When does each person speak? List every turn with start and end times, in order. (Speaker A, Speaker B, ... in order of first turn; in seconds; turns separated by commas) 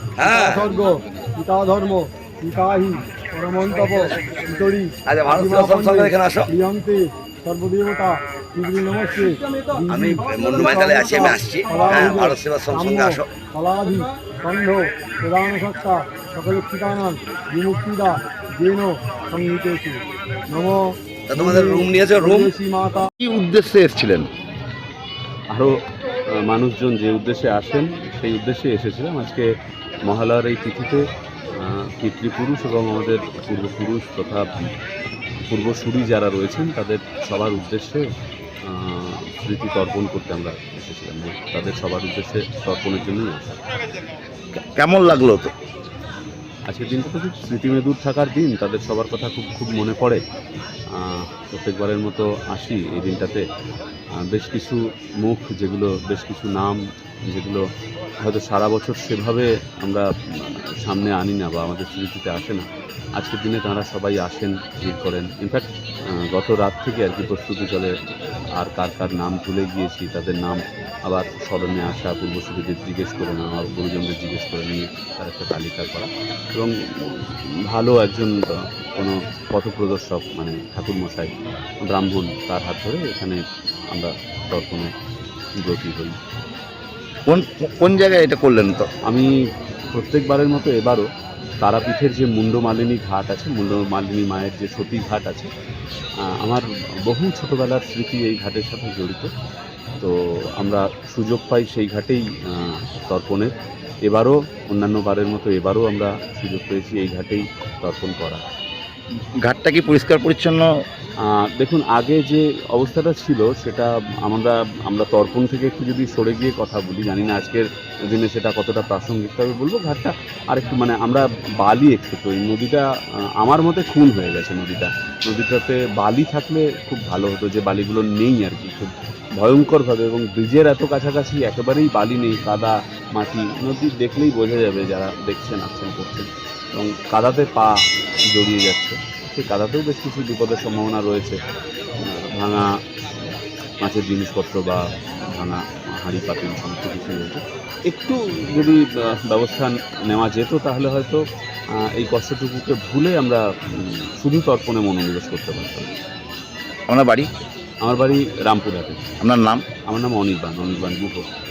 Speaker A: 0.2-0.6, Speaker B: 0.2-23.1, Speaker A: 5.1-6.5, Speaker A: 9.9-13.2, Speaker A: 21.3-22.5, Speaker A: 23.2-24.3, Speaker C: 26.4-29.4, Speaker C: 30.1-34.7, Speaker C: 35.5-38.0, Speaker C: 38.6-43.6, Speaker A: 44.5-45.5, Speaker C: 46.7-50.2, Speaker C: 50.9-53.4, Speaker C: 54.2-56.8, Speaker C: 57.3-57.6, Speaker C: 58.2-62.6, Speaker C: 63.2-65.6, Speaker C: 66.3-67.9, Speaker C: 68.6-83.4, Speaker C: 83.9-84.9, Speaker C: 85.6-86.2, Speaker A: 87.3-88.9, Speaker C: 89.9-91.0, Speaker C: 91.6-95.5, Speaker C: 96.3-99.3, Speaker C: 100.0-103.5, Speaker C: 104.0-108.4, Speaker A: 109.4-110.7, Speaker C: 111.2-122.8, Speaker C: 123.4-137.7, Speaker C: 138.3-141.4, Speaker C: 142.0-142.7, Speaker C: 143.8-151.2, Speaker C: 151.8-155.9, Speaker A: 156.9-157.3, Speaker C: 157.8-159.1, Speaker A: 159.2-159.7, Speaker C: 159.9-161.2